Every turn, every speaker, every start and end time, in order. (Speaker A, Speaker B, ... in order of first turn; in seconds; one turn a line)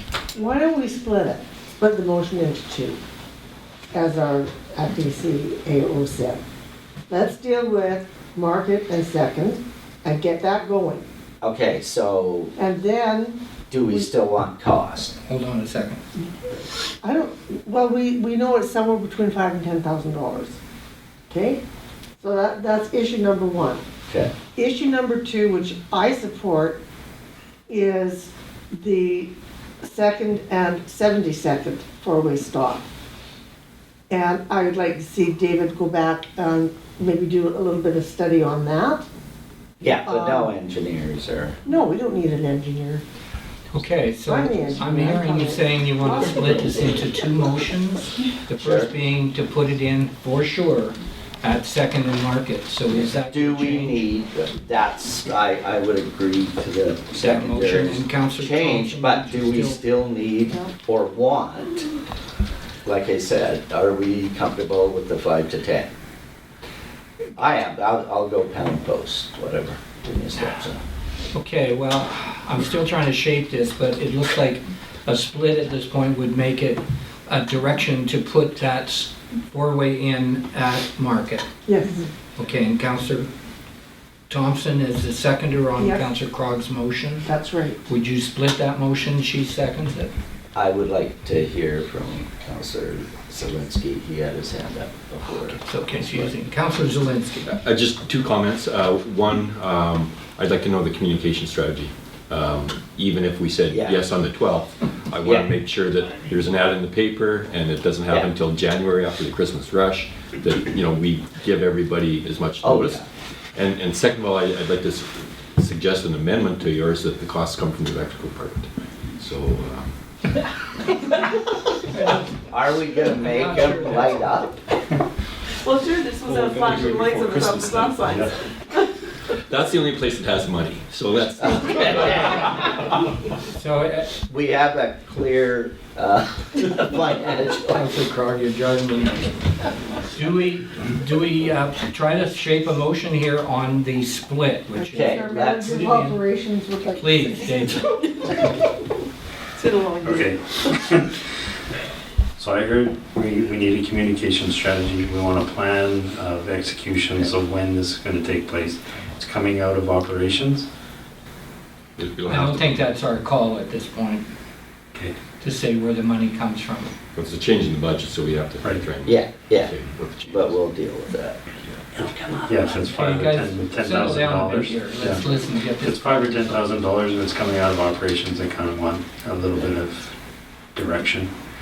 Speaker A: 0.3-3.0
Speaker A: 3.9-6.4
Speaker A: 7.1-11.0
Speaker B: 11.4-12.5
Speaker A: 12.6-13.4
Speaker B: 13.7-15.2
Speaker C: 15.2-16.0
Speaker A: 17.0-20.6
Speaker A: 21.3-21.6
Speaker A: 22.2-23.8
Speaker B: 24.1-24.4
Speaker A: 24.4-26.8
Speaker A: 27.7-29.3
Speaker A: 29.8-32.9
Speaker A: 34.1-39.0
Speaker B: 39.8-41.6
Speaker A: 40.0-40.5
Speaker A: 41.6-43.0
Speaker C: 43.7-54.0
Speaker A: 44.2-45.6
Speaker B: 48.6-49.0
Speaker B: 53.1-61.9
Speaker C: 57.1-59.8
Speaker B: 62.8-65.9
Speaker B: 67.3-70.8
Speaker C: 71.3-81.5
Speaker A: 81.7-82.0
Speaker C: 82.3-83.3
Speaker C: 84.3-87.3
Speaker A: 85.8-86.1
Speaker A: 87.2-87.8
Speaker C: 87.8-90.1
Speaker B: 90.5-96.3
Speaker C: 95.6-97.6
Speaker D: 97.6-113.0
Speaker B: 103.7-104.0
Speaker B: 105.2-105.5
Speaker B: 112.6-113.0
Speaker D: 113.5-119.9
Speaker C: 121.9-122.2
Speaker B: 122.5-124.6
Speaker C: 123.0-124.2
Speaker E: 125.6-128.8
Speaker D: 126.2-128.1
Speaker D: 129.4-132.5
Speaker B: 131.8-132.6
Speaker C: 133.4-134.1
Speaker B: 134.2-137.9
Speaker C: 137.7-139.3
Speaker C: 140.1-146.2
Speaker A: 144.7-147.7
Speaker B: 144.9-145.7
Speaker C: 147.0-148.5
Speaker E: 149.6-150.7
Speaker F: 150.0-151.2
Speaker F: 152.4-160.7
Speaker D: 162.0-162.8
Speaker C: 162.3-164.2
Speaker C: 165.4-166.9
Speaker D: 167.1-170.6
Speaker F: 168.6-168.9
Speaker B: 169.0-169.7
Speaker B: 170.3-172.4
Speaker F: 172.4-180.1
Speaker C: 172.8-176.6
Speaker F: 180.7-181.3